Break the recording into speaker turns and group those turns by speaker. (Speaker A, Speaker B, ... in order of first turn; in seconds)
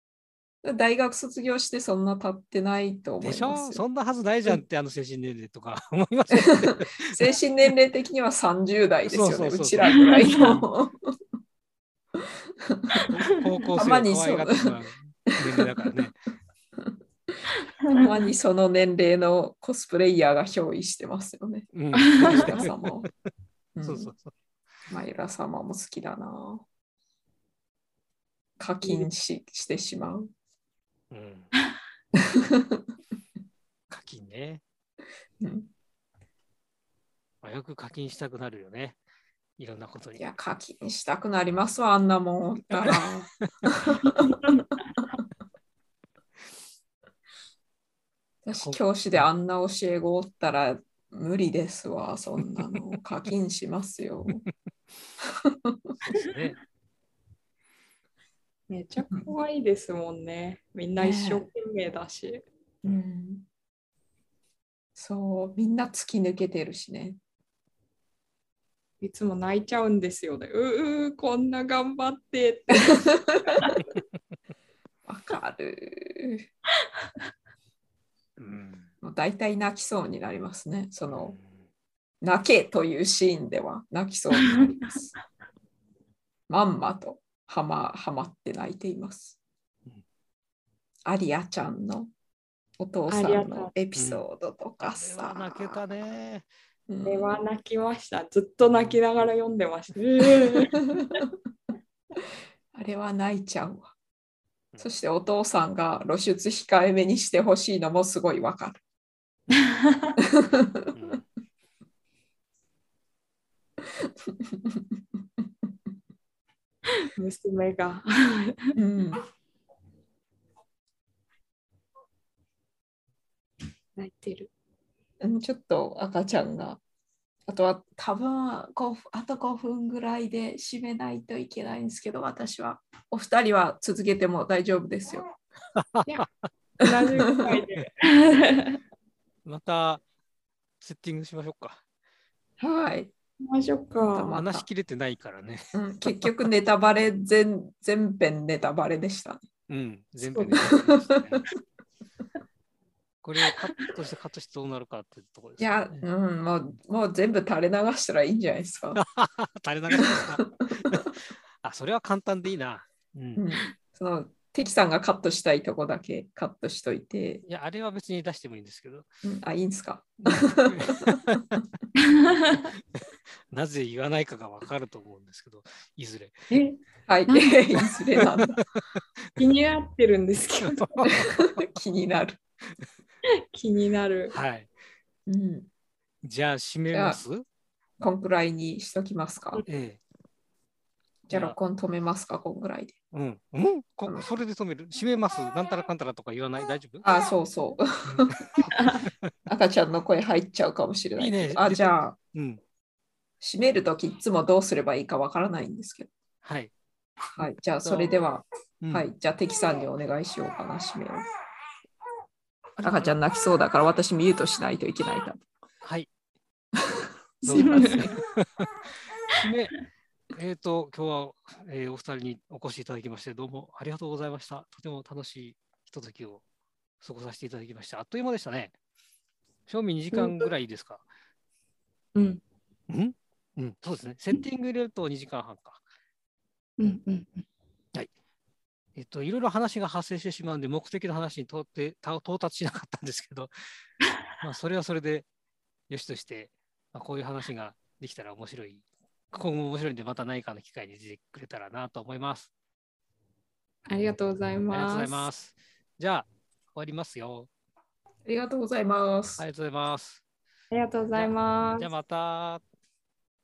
Speaker A: 0.6-3.8, 6.3-11.2, 12.2-13.1, 13.8-14.8, 15.3-15.7, 16.8-17.4, 17.9-23.1, 23.8-24.1, 24.9-26.6, 28.6-30.3, 32.2-32.9, 35.4-35.7, 40.2-44.4, 48.5-54.4, 55.2-55.9, 61.0-61.5, 62.8-63.5, 65.0-67.2, 72.7-73.6, 75.1-76.5, 79.0-81.4, 82.2-85.1, 86.5-89.4, 91.0-92.1, 92.8-95.8, 96.9-97.4, 102.7-103.9, 104.8-108.8, 110.2-111.1, 113.9-115.4, 118.8-119.2, 125.2-126.8, 127.5-135.2, 136.9-137.6, 142.6-143.1, 144.0-144.7, 145.7-149.4, 150.6-151.4, 155.6-159.0, 159.9-161.0, 163.4-167.4, 169.2-171.6, 177.1-178.6, 181.4-182.4, 185.3-185.7, 186.9-187.2, 188.0-189.6, 191.3-192.9, 197.0-198.7, 199.5-202.2, 203.4-206.1, 207.4-211.2, 212.8-215.4, 217.5-218.2, 258.2-259.4
Speaker B: 3.2-7.3, 9.1-10.7, 13.1-16.2, 21.7-23.1, 23.8-24.3, 31.1-31.5, 33.9-34.6, 37.4-39.0, 39.6-40.2, 42.7-43.1, 48.5-48.8, 56.1-56.6, 78.4-78.9, 81.1-81.5, 94.0-94.2, 94.8-96.5, 98.7-99.0, 110.9-111.2, 135.8-136.5, 137.2-137.9, 139.4-140.0, 140.8-141.8, 144.3-146.4, 149.7-151.5, 153.2-156.1, 159.0-163.4, 167.4-169.1, 170.2-171.5, 172.5-173.0, 173.5-176.5, 178.4-178.7, 180.6-181.7, 184.3-184.7, 186.2-187.4, 189.7-190.0, 191.3-191.6, 193.1-197.0, 198.1-199.1, 201.2-202.6, 206.4-206.7, 207.8-208.1, 208.8-209.1, 212.8-213.2, 215.8-216.1, 217.4-218.7, 219.3-219.8, 220.3-226.4, 227.0-228.8, 229.7-231.0, 232.9-235.8, 239.0-243.5, 244.4-245.3, 245.9-252.5, 254.7-257.5, 259.4-260.2, 261.1-262.6
Speaker C: 9.9-10.6, 13.0-13.6, 17.9-18.3, 22.0-22.5, 44.0-44.7, 58.7-62.4, 69.0-73.8, 84.4-84.9, 93.1-93.7, 97.1-101.2, 109.5-110.2, 116.9-118.8, 124.0-124.5, 136.8-138.8, 143.4-144.3, 150.4-150.6, 172.0-172.7, 176.5-177.6, 179.4-181.2, 183.5-184.4, 217.4-218.1, 230.1-230.5, 232.2-232.4, 236.8-237.5, 253.9-255.3, 260.7-261.9